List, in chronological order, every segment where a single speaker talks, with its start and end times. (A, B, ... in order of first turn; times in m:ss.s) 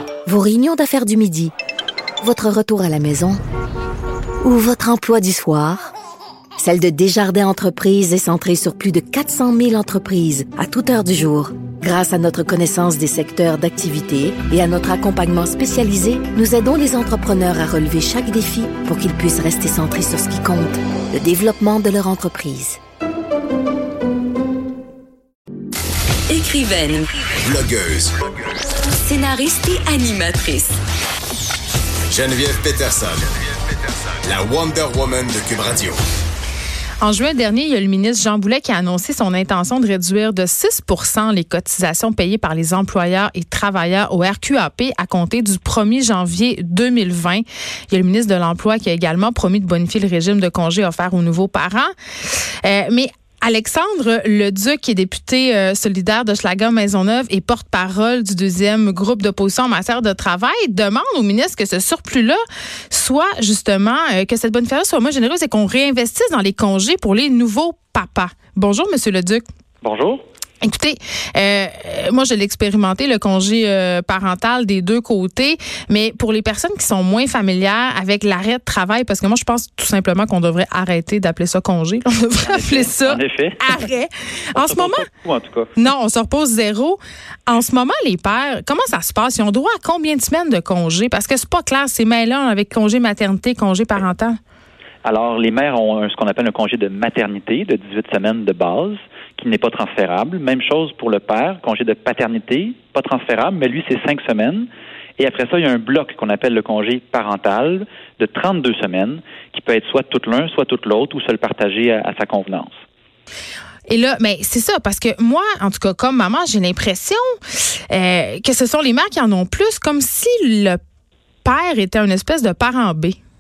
0:00.2-0:01.5 A
0:02.2-0:03.4 A
0:04.4-0:05.9 A
0:06.6-0:22.8 A
0:26.3-0:27.2 B
0:27.4-0:28.3 C
0:28.8-0:30.8 B
0:32.1-0:36.0 C
0:37.0-1:02.4 D
1:02.9-1:09.4 D
1:09.8-1:10.2 E
1:10.6-1:25.0 D
1:22.4-1:23.8 E
1:24.5-1:25.7 E
1:25.8-1:34.4 D
1:35.0-1:44.6 E
1:45.2-1:52.8 E
1:53.9-1:57.4 D
1:57.9-2:00.8 D
2:01.4-2:03.2 D